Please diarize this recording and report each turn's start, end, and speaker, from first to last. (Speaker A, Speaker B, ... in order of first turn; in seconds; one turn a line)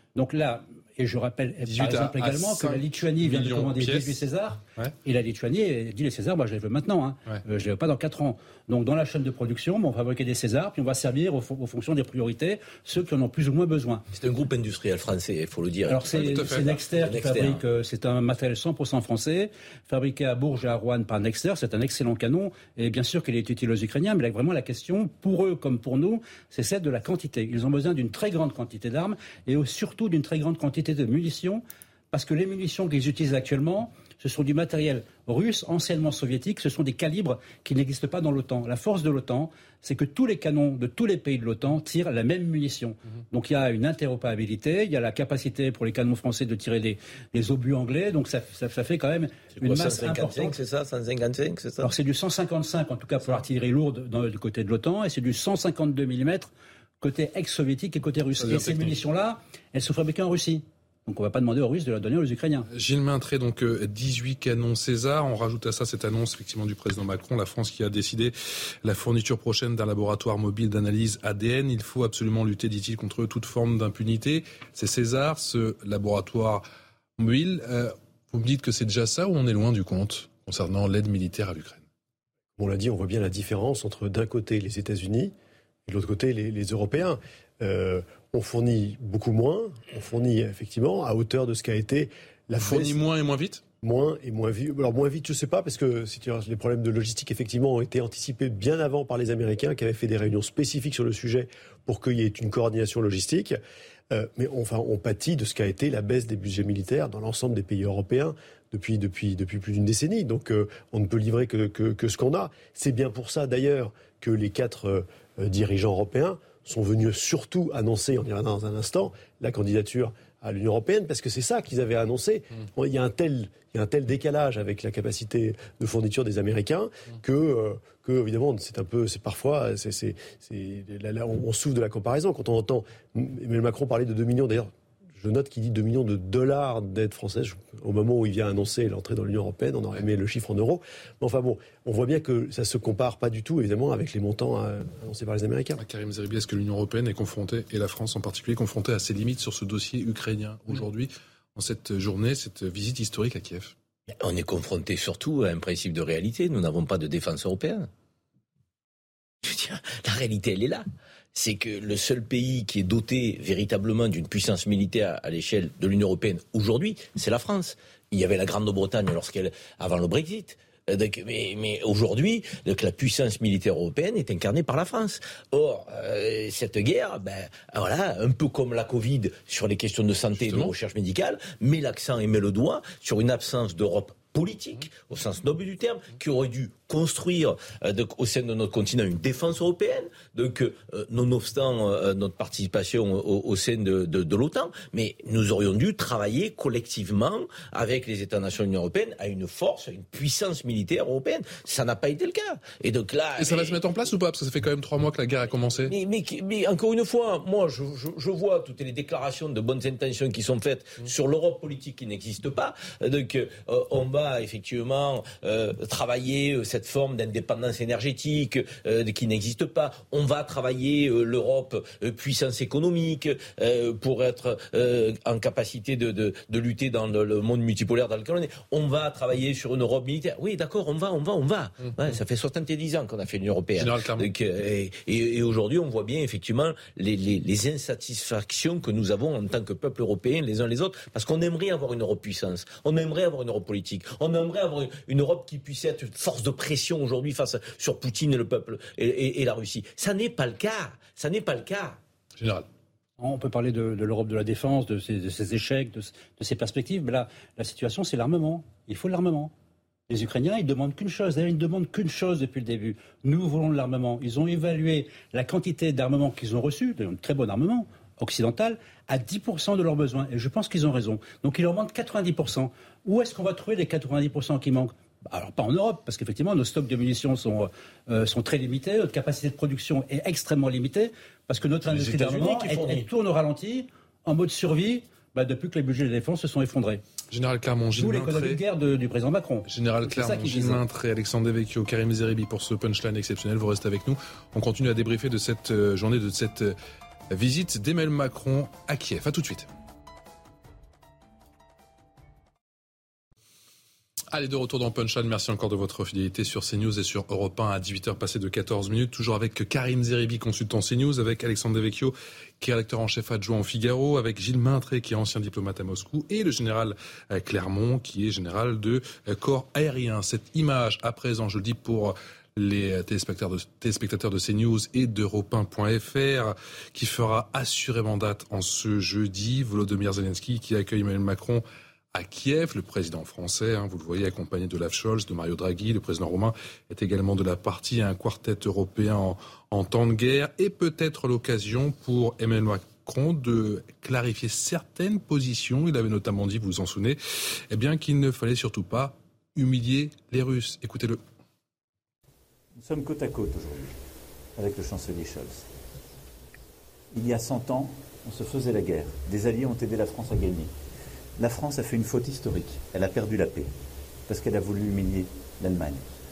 Speaker A: 0.1-14.0
Speaker B: 1.6-4.2
Speaker C: 14.1-17.6
Speaker A: 15.9-50.6
Speaker B: 16.1-16.8
Speaker C: 49.5-51.9
Speaker A: 51.8-62.7
Speaker B: 58.4-59.0
Speaker B: 62.7-76.6
Speaker B: 77.2-81.8
Speaker D: 82.6-85.3
Speaker D: 85.8-93.0
Speaker B: 92.6-93.6
Speaker D: 93.8-103.6
Speaker D: 104.1-145.8
Speaker B: 145.8-153.7
Speaker C: 154.1-157.9
Speaker C: 159.4-203.8
Speaker B: 180.4-180.7
Speaker B: 203.4-205.9
Speaker C: 205.9-252.0
Speaker B: 233.8-234.3
Speaker B: 252.4-252.7
Speaker A: 253.2-259.5
Speaker A: 260.1-287.0
Speaker C: 282.1-283.0
Speaker B: 287.3-288.6
Speaker A: 287.9-290.8
Speaker B: 289.7-296.8
Speaker B: 297.3-299.7
Speaker B: 304.3-351.2
Speaker E: 352.7-354.0
Speaker E: 354.6-355.6
Speaker E: 357.1-360.7
Speaker E: 361.4-363.7
Speaker E: 364.3-366.0